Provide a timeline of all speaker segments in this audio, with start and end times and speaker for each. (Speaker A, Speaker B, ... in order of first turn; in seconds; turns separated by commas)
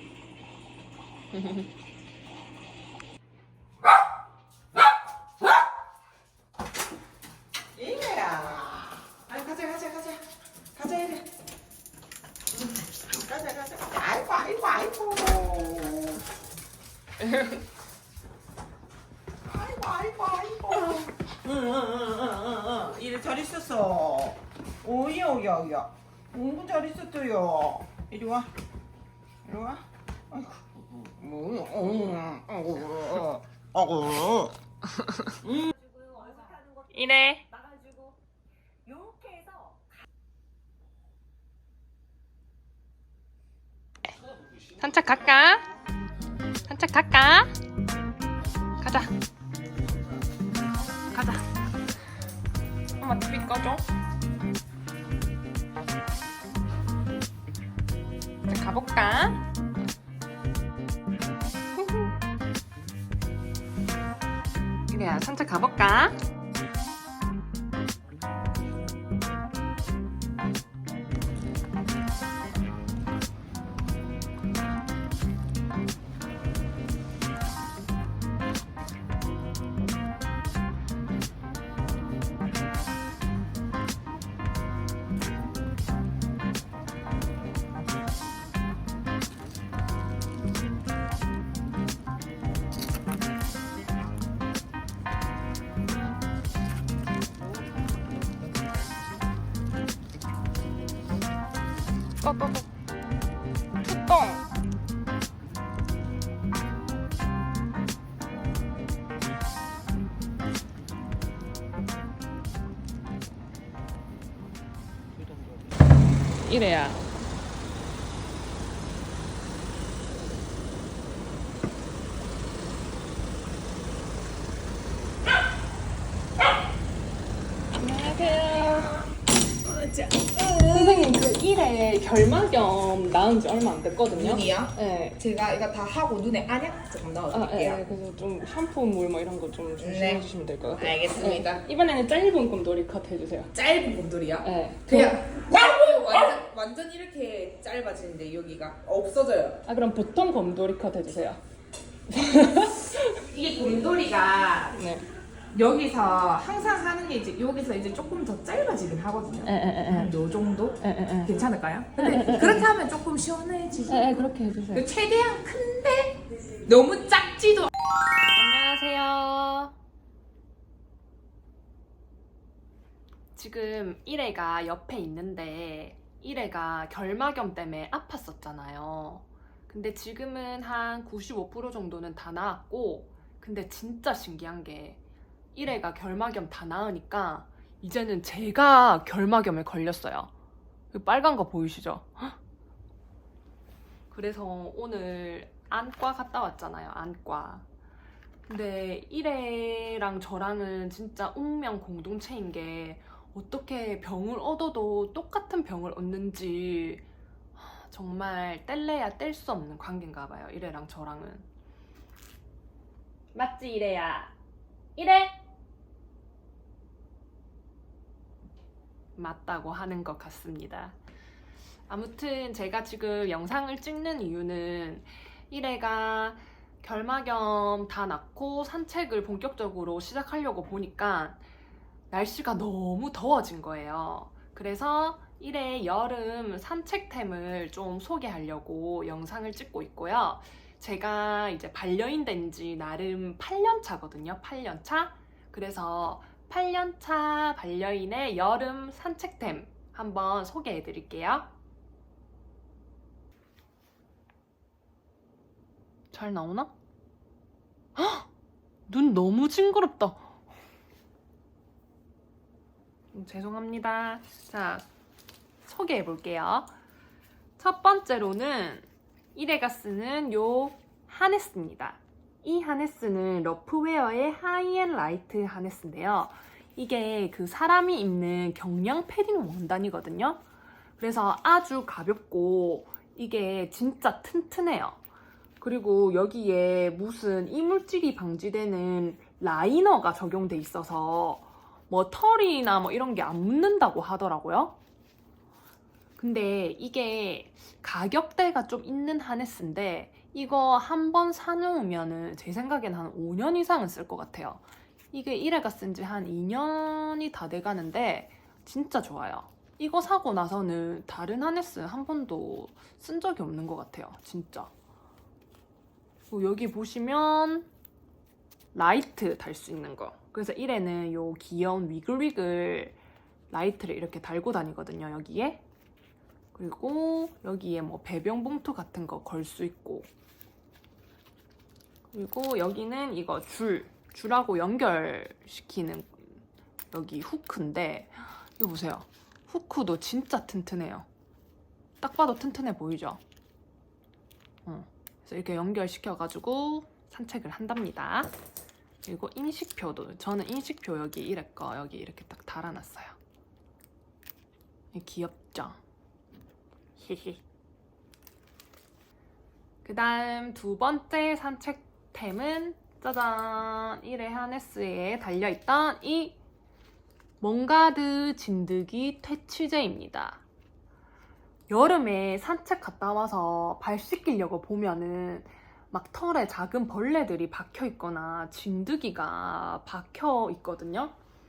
Speaker A: 1.3-1.7, Speaker B: 7.8-10.1, Speaker C: 9.5-10.2, Speaker C: 10.8-11.2, Speaker B: 10.8-11.2, Speaker B: 13.1-16.2, Speaker B: 19.5-28.5, Speaker B: 29.4-34.5, Speaker A: 35.0-35.3, Speaker B: 35.5-35.7, Speaker A: 36.8-37.6, Speaker A: 44.8-45.7, Speaker A: 46.7-47.5, Speaker A: 48.8-49.1, Speaker A: 51.1-51.4, Speaker A: 53.0-53.8, Speaker A: 58.5-59.4, Speaker A: 61.8-62.1, Speaker A: 64.9-66.2, Speaker A: 102.2-102.6, Speaker A: 103.8-104.4, Speaker A: 116.4-117.1, Speaker A: 127.7-129.1, Speaker C: 129.7-131.0, Speaker A: 130.6-135.2, Speaker C: 134.1-134.7, Speaker C: 135.2-137.8, Speaker B: 135.2-136.6, Speaker A: 137.3-143.5, Speaker C: 139.8-140.2, Speaker C: 140.8-141.6, Speaker C: 143.6-149.6, Speaker A: 144.4-145.4, Speaker A: 149.6-151.4, Speaker A: 152.1-153.2, Speaker C: 153.3-154.7, Speaker A: 154.7-155.0, Speaker C: 155.5-164.0, Speaker A: 159.4-160.2, Speaker A: 160.8-161.4, Speaker A: 161.9-162.7, Speaker A: 163.9-164.9, Speaker C: 164.7-167.7, Speaker A: 168.3-169.7, Speaker A: 173.3-185.0, Speaker A: 185.5-190.3, Speaker A: 190.9-192.4, Speaker A: 194.1-197.7, Speaker A: 198.5-207.0, Speaker A: 207.6-211.5, Speaker A: 213.3-214.3, Speaker A: 214.9-215.3, Speaker A: 219.2-220.9, Speaker A: 221.9-231.4, Speaker A: 232.1-251.5, Speaker A: 256.1-256.7, Speaker A: 257.9-258.3, Speaker A: 258.9-260.3, Speaker A: 263.1-264.9, Speaker A: 265.6-266.7, Speaker A: 267.6-280.4, Speaker A: 281.0-285.0, Speaker A: 285.6-294.8, Speaker A: 296.2-314.7, Speaker A: 316.3-317.7, Speaker A: 318.7-323.0, Speaker A: 323.5-325.6, Speaker A: 326.5-330.1, Speaker A: 332.1-341.1, Speaker A: 342.0-343.2, Speaker A: 344.6-348.3, Speaker A: 349.0-353.1, Speaker A: 354.9-355.8, Speaker A: 357.0-357.4, Speaker A: 359.8-366.4, Speaker A: 367.4-370.4, Speaker A: 371.7-381.1